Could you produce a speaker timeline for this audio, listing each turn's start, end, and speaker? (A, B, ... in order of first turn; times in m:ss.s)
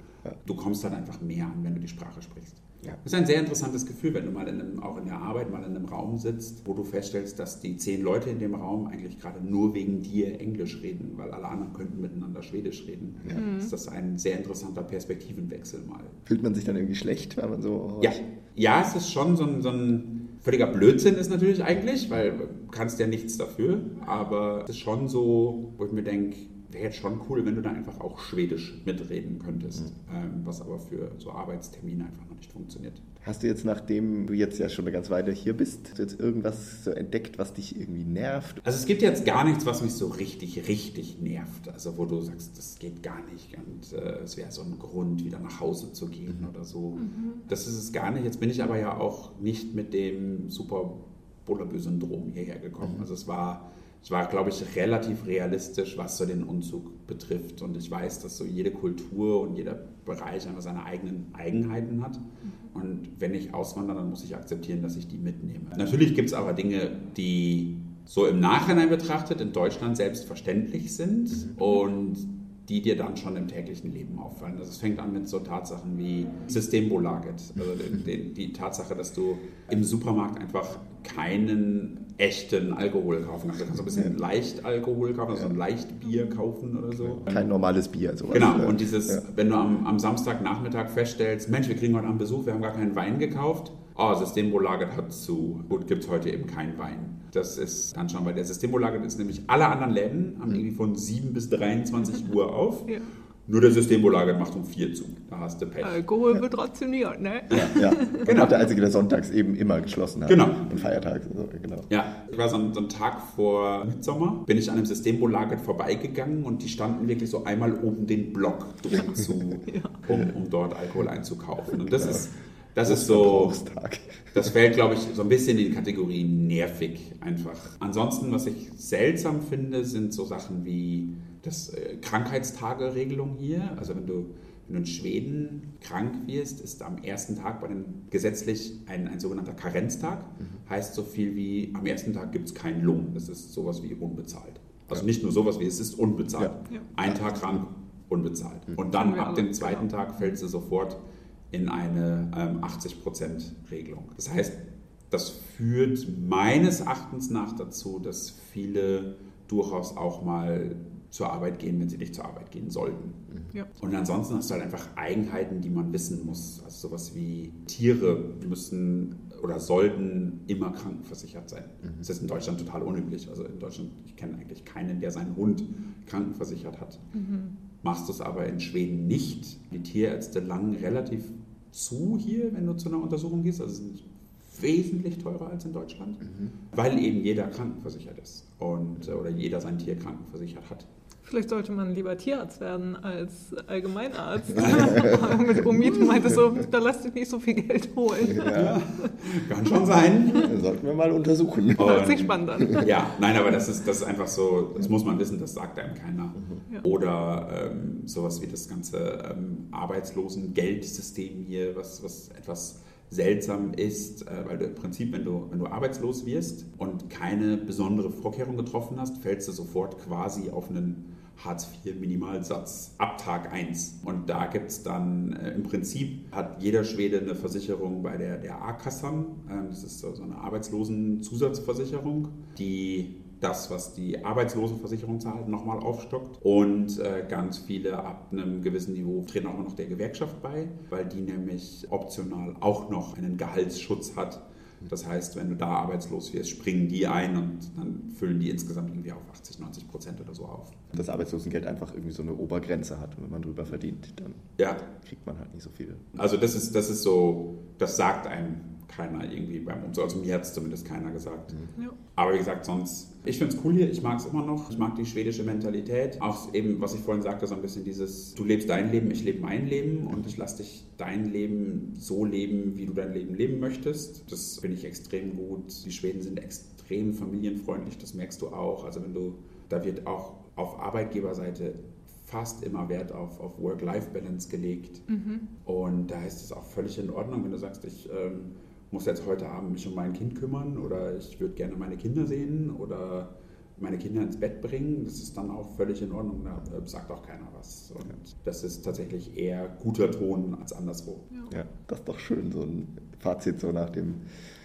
0:00.4-0:16.2 A
0:13.3-0:13.7 B
0:16.2-0:18.2 C
0:18.0-0:33.0 A
0:33.2-0:38.6 C
0:38.6-1:27.5 A
0:46.9-0:47.5 B
1:27.1-1:29.2 C
1:28.3-1:46.0 A
1:45.8-1:48.3 B
1:47.5-1:48.7 A
1:47.5-1:51.9 C
1:50.3-1:50.9 A
1:51.9-2:03.6 A
1:59.7-2:00.0 B
2:02.8-2:04.5 C
2:04.3-2:31.0 A
2:29.0-2:29.8 B
2:31.5-2:43.2 A
2:43.8-2:57.0 A
2:57.1-2:57.5 B
2:57.8-3:10.9 A
3:11.2-3:19.1 B
3:14.5-3:15.3 A
3:18.3-3:18.8 C
3:18.5-3:20.6 A
3:20.3-3:22.9 C
3:21.8-4:10.9 A
3:21.8-3:23.0 B
4:10.9-4:16.1 C
4:16.1-4:21.5 A
4:22.1-4:45.0 A
4:45.1-4:45.5 B
4:45.6-5:01.3 A
5:01.5-5:04.2 C